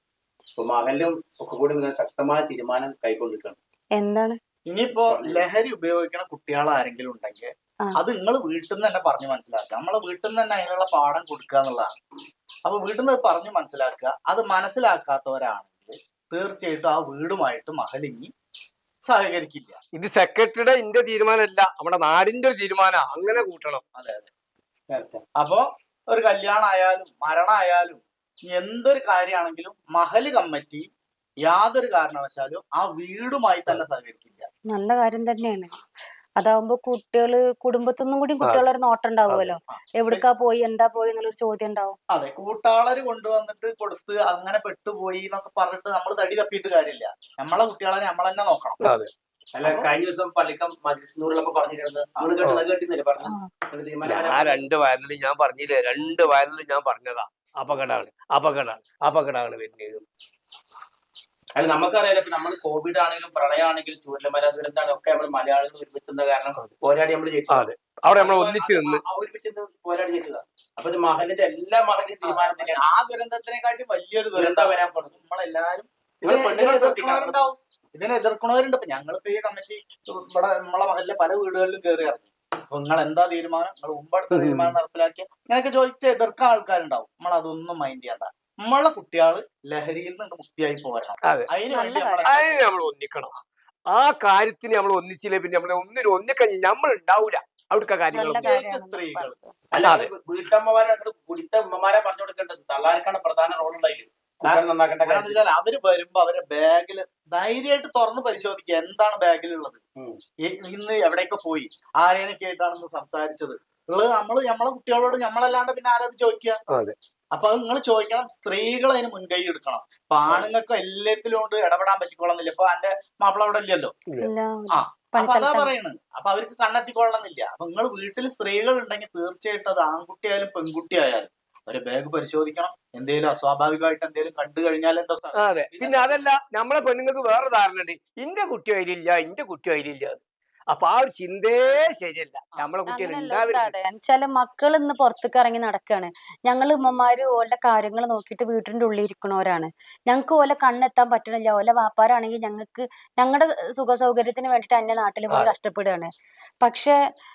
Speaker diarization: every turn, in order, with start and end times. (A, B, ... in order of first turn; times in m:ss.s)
0:00.6-0:03.6 A
0:04.0-0:04.4 B
0:04.7-0:12.0 C
0:05.1-0:05.4 A
0:12.6-0:18.3 C
0:19.0-0:19.8 C
0:19.9-0:23.8 D
0:24.0-0:24.3 C
0:24.9-0:25.2 A
0:25.4-0:30.9 C
0:31.4-0:34.5 C
0:34.7-0:35.8 B
0:36.4-0:42.0 B
0:42.1-0:48.8 C
0:48.8-0:49.1 D
0:49.5-0:54.6 A
0:54.0-1:00.0 D
1:01.6-1:12.8 A
1:07.5-1:09.0 D
1:12.0-1:32.6 C
1:14.4-1:15.1 A
1:16.2-1:17.4 A
1:24.3-1:24.7 D
1:31.2-1:31.5 D
1:31.7-1:32.3 B
1:32.2-1:33.3 D
1:33.9-1:38.6 D
1:38.1-1:39.5 B
1:38.1-1:39.3 C
1:39.7-1:45.4 A
1:39.8-1:40.1 D
1:44.4-1:49.8 C
1:50.4-1:56.6 C
1:56.7-1:57.0 D
1:57.3-2:03.9 C
2:04.2-2:05.7 B
2:04.8-2:16.1 C
2:15.3-2:23.7 D
2:22.9-2:36.1 B
2:36.6-2:37.0 B